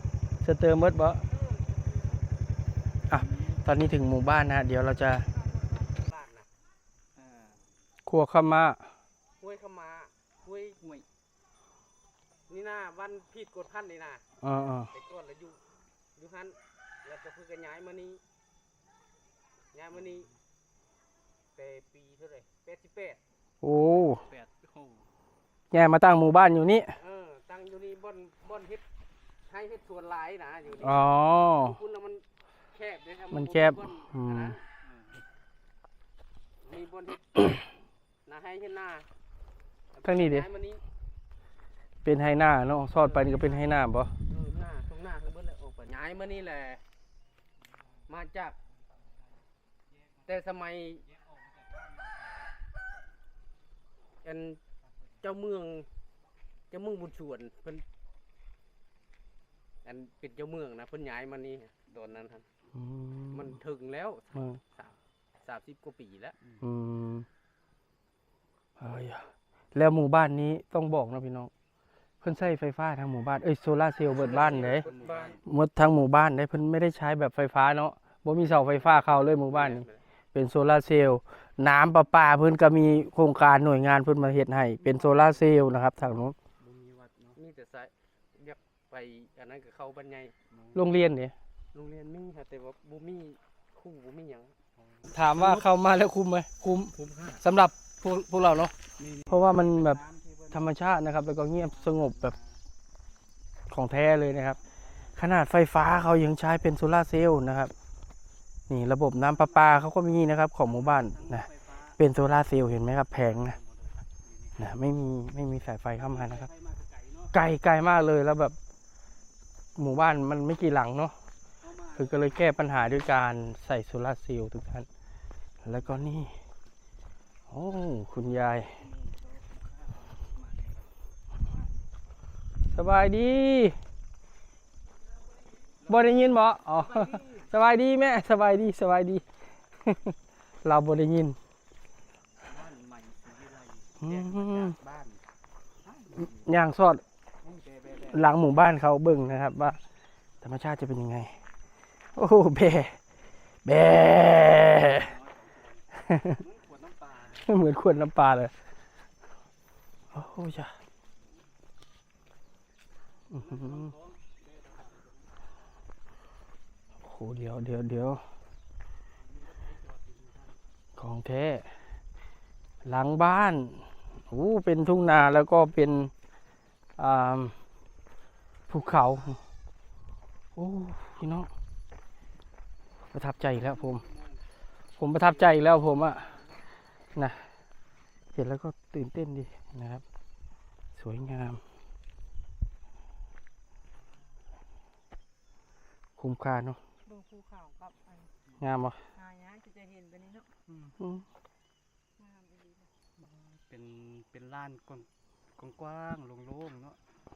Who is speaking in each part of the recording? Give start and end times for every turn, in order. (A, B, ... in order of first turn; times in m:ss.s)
0:00.4-0:01.2 A
0:03.1-0:05.3 A
0:03.1-0:03.6 B
0:05.3-0:06.5 C
0:07.2-0:07.6 B
0:08.1-0:08.8 A
0:09.4-0:10.9 C
0:12.5-0:14.2 C
0:14.4-0:14.9 A
0:14.9-0:15.6 C
0:16.2-0:18.2 C
0:19.7-0:20.3 C
0:19.9-0:20.3 B
0:21.6-0:23.2 C
0:23.6-0:24.2 A
0:24.1-0:25.0 B
0:25.7-0:26.9 A
0:27.0-0:28.8 C
0:29.5-0:34.6 C
0:30.8-0:31.8 A
0:33.3-0:34.6 A
0:34.8-0:35.2 B
0:36.6-0:37.6 C
0:38.3-0:39.1 C
0:40.0-0:40.8 C
0:40.0-0:40.5 A
0:42.0-0:44.1 A
0:43.0-0:43.7 C
0:44.3-0:46.8 C
0:48.1-0:48.6 C
0:50.3-0:51.0 C
0:51.1-0:52.1 B
0:54.2-0:54.6 C
0:55.2-0:55.9 C
0:56.7-0:57.8 C
0:59.8-1:02.4 C
1:02.8-1:03.6 A
1:03.3-1:06.4 C
1:04.4-1:04.6 A
1:06.6-1:07.3 A
1:08.8-1:11.5 A
1:12.2-1:14.9 A
1:14.1-1:15.4 C
1:14.1-1:15.4 B
1:15.4-1:26.4 A
1:18.5-1:20.0 C
1:24.8-1:25.5 B
1:26.6-1:27.4 B
1:27.4-1:30.3 C
1:30.5-1:30.9 B
1:30.8-1:31.3 A
1:31.7-1:34.5 C
1:34.8-1:35.7 B
1:35.1-1:38.7 A
1:37.0-1:37.4 B
1:39.0-1:40.9 B
1:39.3-1:40.0 A
1:40.5-1:42.3 A
1:41.6-1:42.6 B
1:43.7-1:44.6 A
1:44.8-1:45.1 B
1:45.2-1:47.7 A
1:48.7-1:51.5 A
1:49.2-1:49.9 B
1:50.6-1:52.0 B
1:52.0-1:53.6 A
1:53.1-1:54.7 B
1:54.6-1:56.5 A
1:56.0-1:57.3 B
1:57.3-1:58.6 A
1:59.8-2:01.2 A
2:01.6-2:03.2 B
2:02.0-2:04.9 A
2:05.6-2:06.3 A
2:07.5-2:08.7 A
2:08.7-2:10.8 B
2:11.4-2:11.7 B
2:12.7-2:13.8 A
2:15.9-2:19.2 A
2:16.8-2:17.4 B
2:19.9-2:20.1 A
2:20.6-2:21.4 A
2:22.4-2:25.2 B
2:24.0-2:24.8 A
2:25.8-2:26.5 B
2:26.2-2:27.0 A
2:27.4-2:28.3 B
2:28.1-2:29.8 A
2:30.4-2:31.4 A
2:32.2-2:33.0 A
2:33.6-2:35.1 A
2:34.5-2:37.5 B
2:36.1-2:36.4 A
2:37.4-2:38.5 A
2:40.1-2:40.7 A
2:43.3-2:45.3 B
2:43.4-2:43.9 A
2:47.0-2:48.2 A
2:49.2-2:50.6 B
2:51.0-2:51.7 A
2:52.8-2:56.1 A
2:57.0-2:57.6 A
2:58.7-2:59.4 A
2:58.9-2:59.4 B
3:00.6-3:01.5 A
3:03.1-3:04.0 A
3:03.5-3:04.4 B
3:05.0-3:06.3 A
3:05.0-3:06.5 B
3:07.2-3:07.4 A
3:08.3-3:10.0 A
3:11.0-3:11.6 A
3:16.2-3:16.8 A
3:17.1-3:18.3 D
3:18.6-3:19.0 A
3:19.2-3:20.5 D
3:20.7-3:21.0 B
3:22.2-3:22.9 D
3:23.2-3:27.0 B